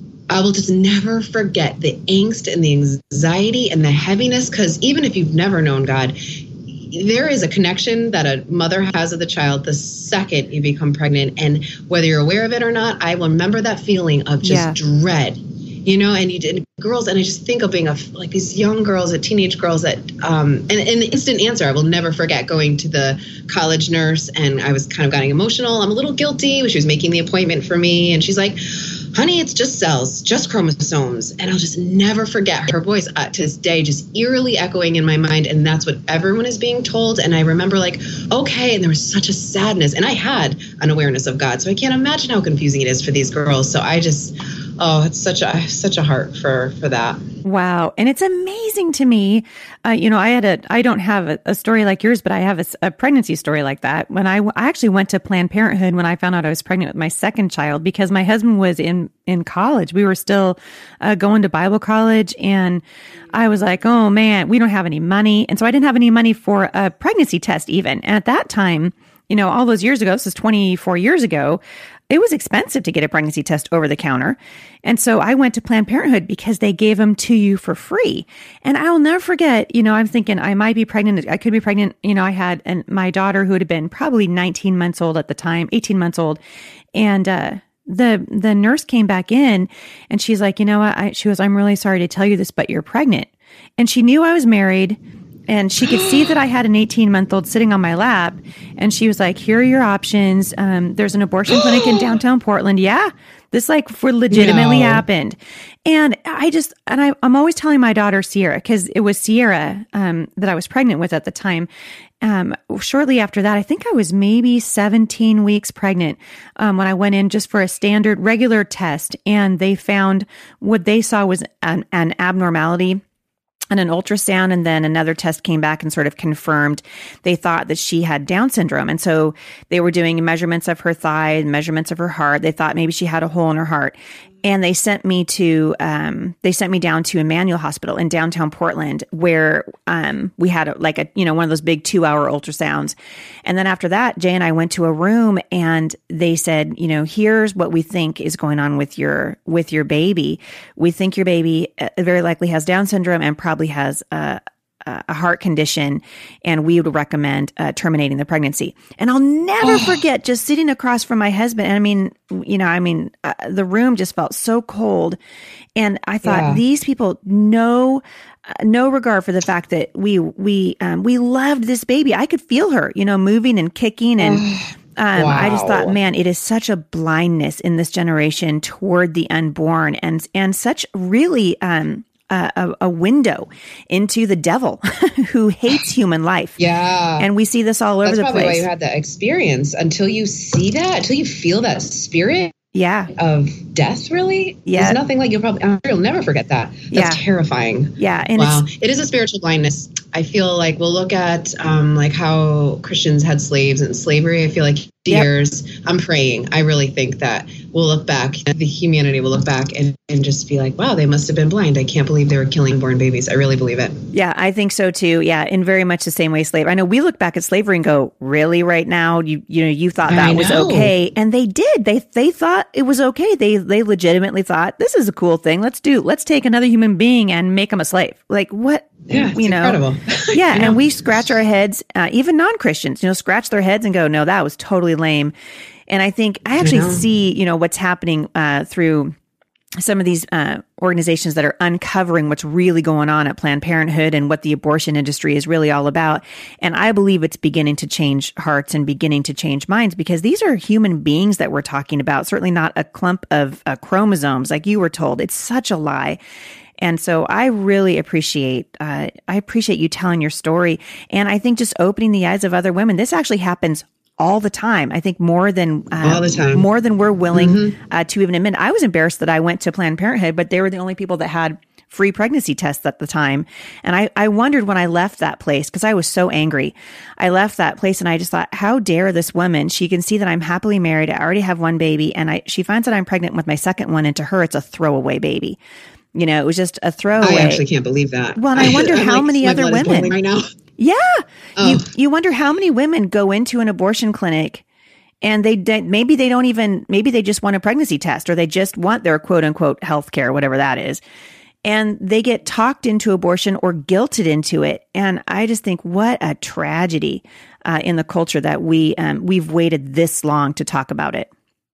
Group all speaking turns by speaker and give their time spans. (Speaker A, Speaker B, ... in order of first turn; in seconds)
Speaker A: 0.3-47.2, 95.8-96.4, 101.5-102.0, 104.3-105.0, 159.6-160.0, 166.2-166.6, 174.2-176.0, 186.6-187.3, 188.0-192.5, 193.1-214.0, 220.1-220.9, 229.1-230.8, 236.6-237.1, 266.0-266.6, 267.3-267.8, 287.2-290.4, 291.6-291.9
Speaker B: 14.4-14.8, 47.4-86.4, 86.9-95.0, 95.5-111.7, 112.2-123.0, 123.7-165.2, 165.8-174.4, 175.0-186.6, 187.2-188.7, 192.7-193.1, 194.7-195.0, 196.9-197.2, 198.0-198.6, 214.1-229.8, 230.3-235.3, 235.9-239.1, 239.8-256.2, 256.8-285.6, 286.1-287.6, 288.4-290.1, 290.8-294.6, 295.2-301.0, 301.6-311.3